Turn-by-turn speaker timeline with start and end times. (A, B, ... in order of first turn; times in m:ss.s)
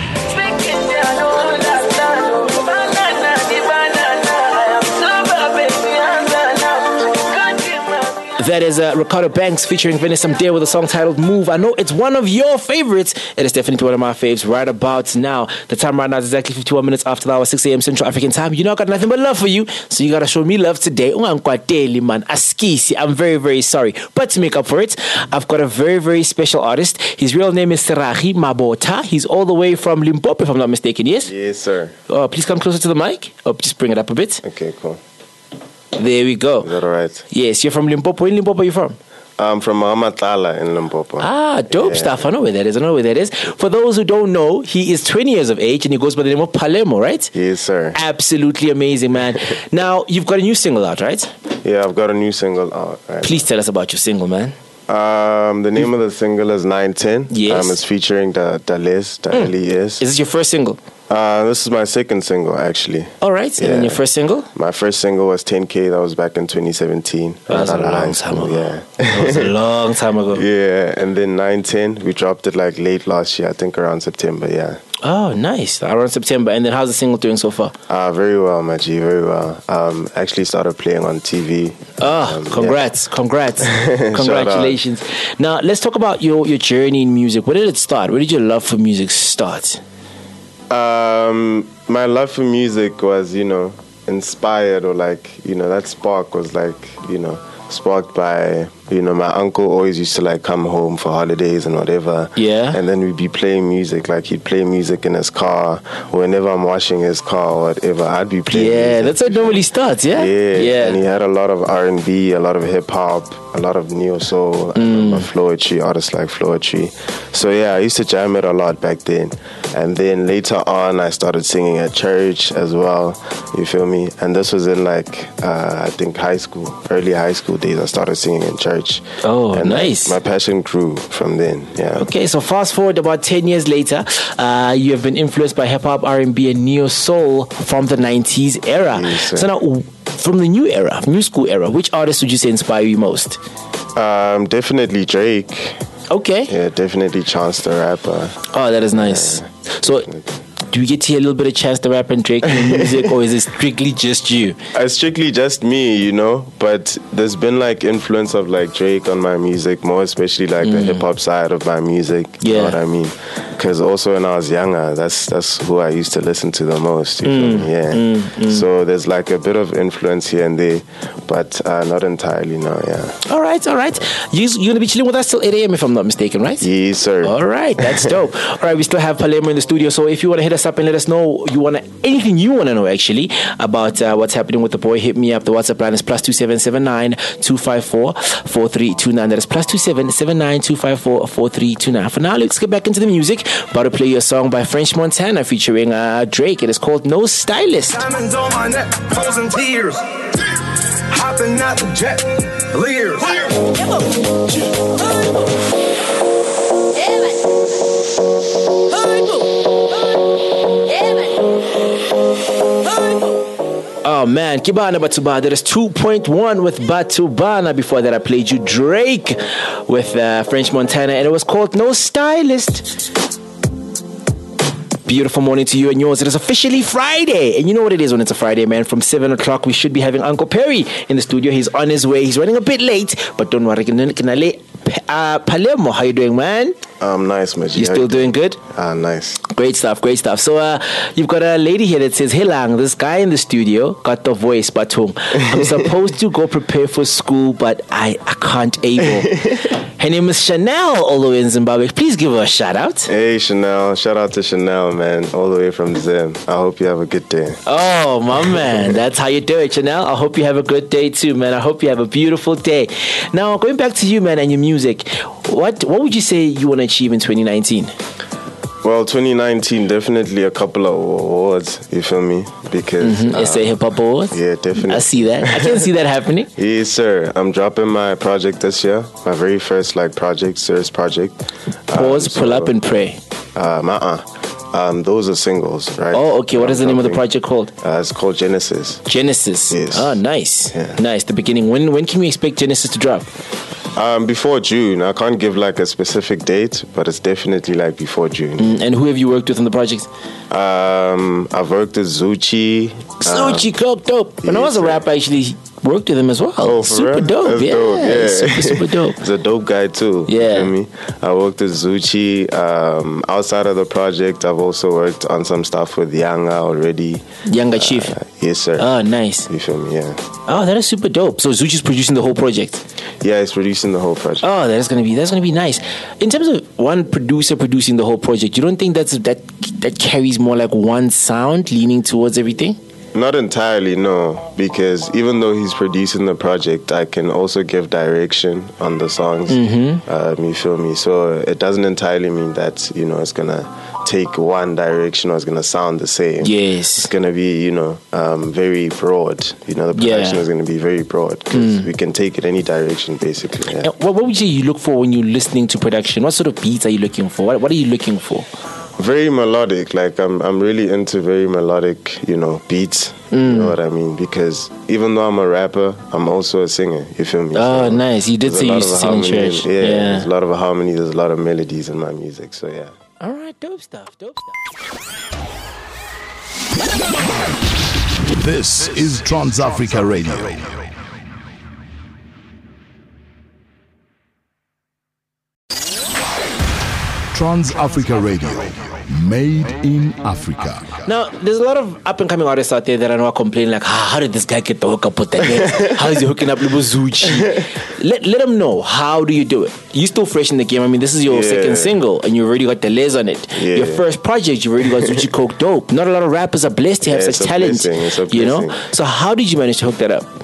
0:00.3-0:02.2 A
0:02.8-0:04.3 A
0:05.1-0:05.8 A
0:08.2-0:31.3 A
0:31.2-0:31.9 B
0:32.1-0:34.4 A
0:34.4-0:35.0 B
0:35.9-0:36.7 A
0:36.6-0:37.2 B
0:37.3-0:39.0 A
0:39.4-0:42.3 B
0:41.2-0:47.3 A
0:47.3-0:48.0 B
0:47.9-0:51.3 A
0:51.6-0:53.4 B
0:53.2-0:54.5 A
0:54.9-1:00.0 B
0:57.3-0:57.8 A
0:59.3-1:00.8 A
1:01.1-1:04.0 B
1:03.2-1:04.5 A
1:04.5-1:09.6 B
1:07.5-1:10.4 A
1:10.3-1:14.8 B
1:15.0-1:17.7 A
1:17.9-1:22.9 B
1:22.0-1:29.8 A
1:23.6-1:24.8 B
1:30.7-2:12.1 B
1:42.4-1:42.8 A
1:48.5-1:51.0 A
1:54.8-1:55.3 A
2:09.2-2:10.2 A
2:12.0-2:23.4 A
2:18.8-2:19.5 B
2:23.9-2:25.8 B
2:26.1-2:26.5 A
2:26.5-2:28.4 B
2:28.5-2:30.1 A
2:28.9-2:30.2 B
2:30.7-2:34.6 A
2:32.4-2:33.1 B
2:34.7-2:53.2 B
2:40.6-2:41.0 A
2:42.4-2:42.8 A
2:47.2-2:48.6 A
2:53.2-2:56.7 A
2:56.6-2:58.1 B
2:57.2-3:18.0 A
3:18.0-3:20.0 C
3:21.1-3:23.6 C
3:34.0-3:42.9 A
3:45.1-3:56.8 A
3:57.0-3:59.4 B
3:57.7-3:58.6 A
3:59.4-4:13.1 A
4:13.1-4:17.6 B
4:17.6-4:27.9 A
4:28.8-4:35.9 B
4:33.0-4:36.5 A
4:36.6-4:42.8 B
4:41.9-4:43.2 A
4:43.5-4:47.3 B
4:46.1-4:47.7 A
4:47.8-4:49.0 B
4:49.0-4:53.3 A
4:49.7-4:50.2 B
4:50.7-4:51.0 B
4:53.9-4:58.8 B
4:58.6-5:00.1 A
5:00.5-5:03.7 B
5:03.2-5:09.2 A
5:04.4-5:05.0 B
5:06.6-5:18.9 B
5:10.3-5:10.7 A
5:17.4-5:18.2 A
5:18.8-5:19.5 A
5:19.4-5:20.2 B
5:20.4-5:22.8 A
5:23.2-5:24.4 B
5:24.4-5:32.8 A
5:33.1-5:53.9 B
5:39.5-5:40.0 A
5:46.4-5:47.1 A
5:49.9-5:50.5 A
5:51.5-5:51.9 A
5:53.8-5:58.5 A
5:59.0-6:12.9 B
6:03.3-6:03.8 A
6:07.5-6:10.3 A
6:13.2-6:14.5 A
6:18.3-6:20.7 D
6:27.3-6:31.0 D
6:31.0-6:50.3 A
6:37.2-6:37.6 B
6:41.2-6:42.0 B
6:43.5-6:44.1 B
6:44.9-6:45.2 B
6:47.0-6:48.8 B